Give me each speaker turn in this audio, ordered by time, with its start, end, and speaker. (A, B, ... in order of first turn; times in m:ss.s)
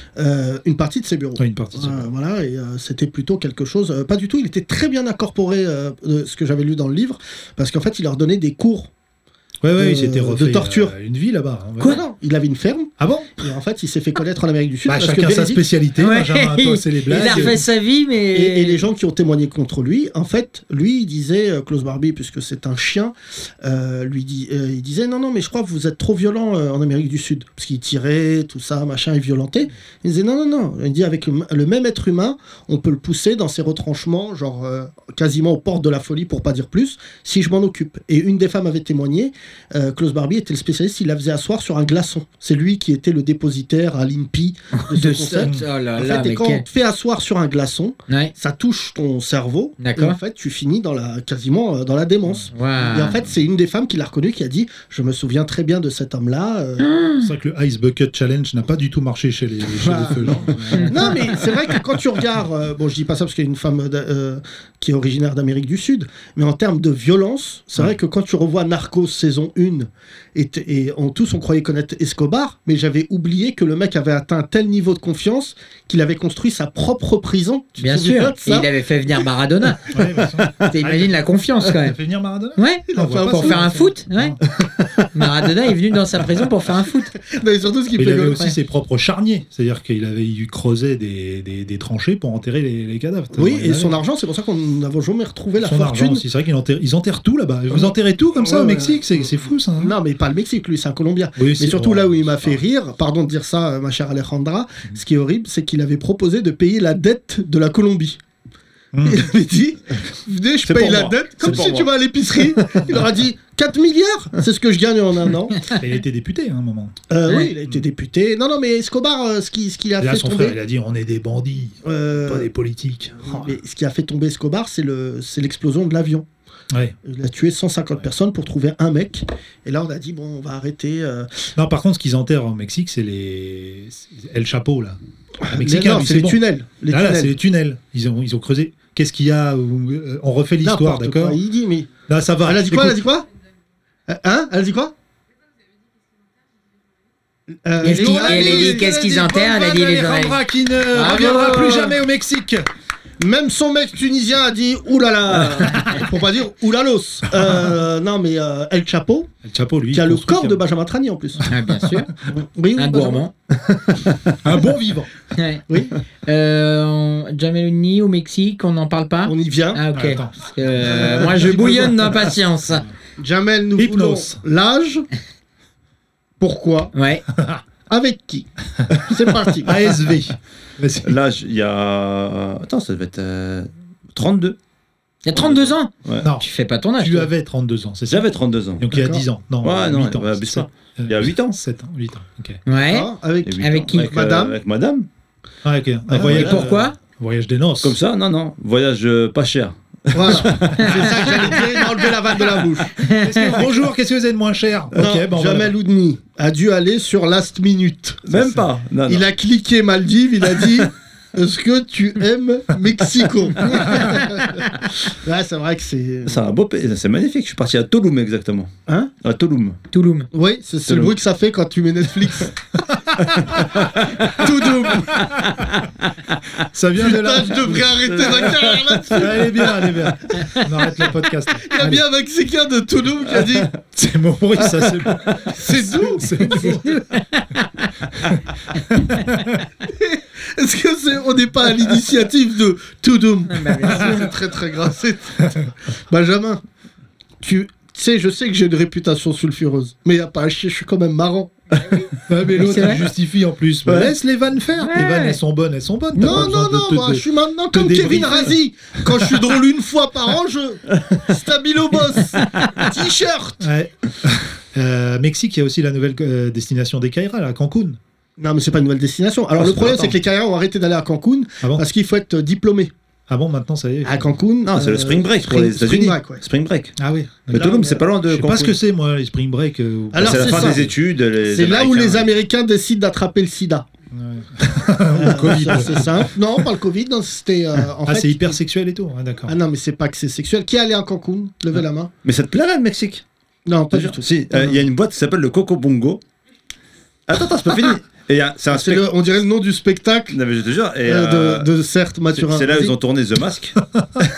0:00.2-0:08.9 A
0:01.4-0:02.1 B
0:09.6-0:12.0 B
0:09.8-0:10.9 A
0:11.8-0:15.6 A
0:13.0-0:13.3 B
0:14.8-0:17.6 B
0:16.0-0:18.8 C
0:17.1-0:17.6 A
0:18.3-0:56.9 A
0:44.7-0:46.6 C
0:49.8-0:50.2 C
0:52.5-0:53.2 C
0:56.8-0:57.3 C
0:57.2-1:01.4 B
0:59.7-1:18.7 A
1:00.7-1:01.0 C
1:17.8-1:19.9 C
1:19.9-1:24.4 B
1:20.6-1:22.0 C
1:22.6-1:24.4 C
1:22.9-1:23.8 A
1:25.1-1:27.1 C
1:27.2-1:28.5 A
1:27.9-1:34.0 B
1:33.3-1:36.2 A
1:35.6-1:39.9 B
1:37.7-1:48.2 A
1:41.4-1:42.6 B
1:48.9-1:49.3 B
1:49.0-1:55.7 A
1:50.6-1:51.9 D
1:51.4-1:51.8 B
1:55.6-1:56.9 B
1:57.1-2:00.6 A
2:00.0-2:03.5 B
2:01.8-2:02.5 A
2:03.2-2:06.2 A
2:07.0-2:11.5 A
2:11.6-2:21.4 B
2:15.4-2:17.3 A
2:20.6-2:21.9 A
2:22.1-2:23.0 B
2:22.4-2:23.3 A
2:24.1-2:24.9 A
2:27.6-2:28.9 A
2:27.8-2:32.6 B
2:27.8-2:30.4 C
2:30.9-2:31.9 C
2:31.0-2:31.9 A
2:33.2-2:39.3 A
2:39.4-2:40.6 B
2:39.9-2:41.4 A
2:41.4-2:42.1 B
2:41.5-2:42.1 C
2:42.2-2:43.2 A
2:42.8-2:43.3 C
2:44.4-2:45.1 B
2:45.3-2:45.6 C
2:45.7-2:46.0 A
2:46.2-2:52.8 C
2:49.2-2:49.8 A
2:49.9-2:50.3 B
2:50.8-2:52.1 A
2:50.9-2:51.3 B
2:53.2-2:55.0 A
2:53.8-2:54.4 B
2:56.4-2:56.9 A
2:56.9-2:57.2 C
2:57.9-3:00.0 A
2:59.6-3:01.1 B
3:01.0-3:04.6 D
3:05.2-3:07.3 C
3:05.3-3:06.3 D
3:06.2-3:06.5 B
3:07.0-3:12.6 B
3:08.1-3:08.8 D
3:08.9-3:09.2 A
3:09.6-3:11.6 D
3:12.6-3:14.1 C
3:12.7-3:14.6 A
3:13.4-3:15.1 D
3:15.6-3:18.0 B
3:16.1-3:16.6 A
3:16.2-3:16.6 D
3:16.2-3:17.0 C
3:17.8-3:21.7 D
3:20.1-3:23.0 A
3:20.3-3:20.8 B
3:23.0-3:23.6 C
3:23.0-3:25.7 B
3:24.9-3:28.2 A
3:28.3-3:29.3 D
3:28.3-3:28.6 B
3:29.1-3:36.4 A
3:36.2-3:38.7 D
3:39.2-3:39.8 D
3:39.9-3:40.3 C
3:40.3-3:42.6 A
3:40.8-3:41.1 D
3:43.5-3:44.2 D
3:44.2-3:45.3 A
3:46.7-3:48.4 B
3:47.0-3:49.9 A
3:48.2-3:48.6 D
3:49.1-3:52.0 B
3:50.4-3:50.6 C
3:51.6-3:53.8 A
3:53.9-3:57.0 B
3:55.4-3:56.6 A
3:56.5-3:57.9 C
3:58.1-3:59.4 B
3:58.8-3:59.3 C
3:59.8-4:06.6 A
4:03.5-4:04.3 C
4:07.4-4:11.5 A
4:11.8-4:13.0 C
4:12.2-4:18.6 B
4:14.8-4:15.4 C
4:16.1-4:23.6 A
4:23.6-4:28.0 B
4:28.4-4:32.9 A
4:29.6-4:30.0 B
4:29.7-4:30.1 D
4:33.3-4:34.3 B
4:34.0-4:36.4 A
4:34.6-4:37.0 D
4:37.0-4:37.7 B
4:37.5-4:38.8 D
4:37.5-4:38.0 A
4:38.2-4:40.9 B
4:40.1-4:40.9 A
4:40.2-4:42.3 D
4:41.4-4:43.8 A
4:44.1-4:46.3 B
4:45.1-4:48.6 A
4:48.0-4:49.6 B
4:49.5-4:52.1 A
4:52.2-4:53.2 D
4:53.6-4:54.8 A
4:53.9-4:56.2 D
4:57.3-4:59.1 D
4:58.7-5:00.4 A
5:00.3-5:01.7 D
5:01.0-5:02.9 A
5:02.3-5:03.8 D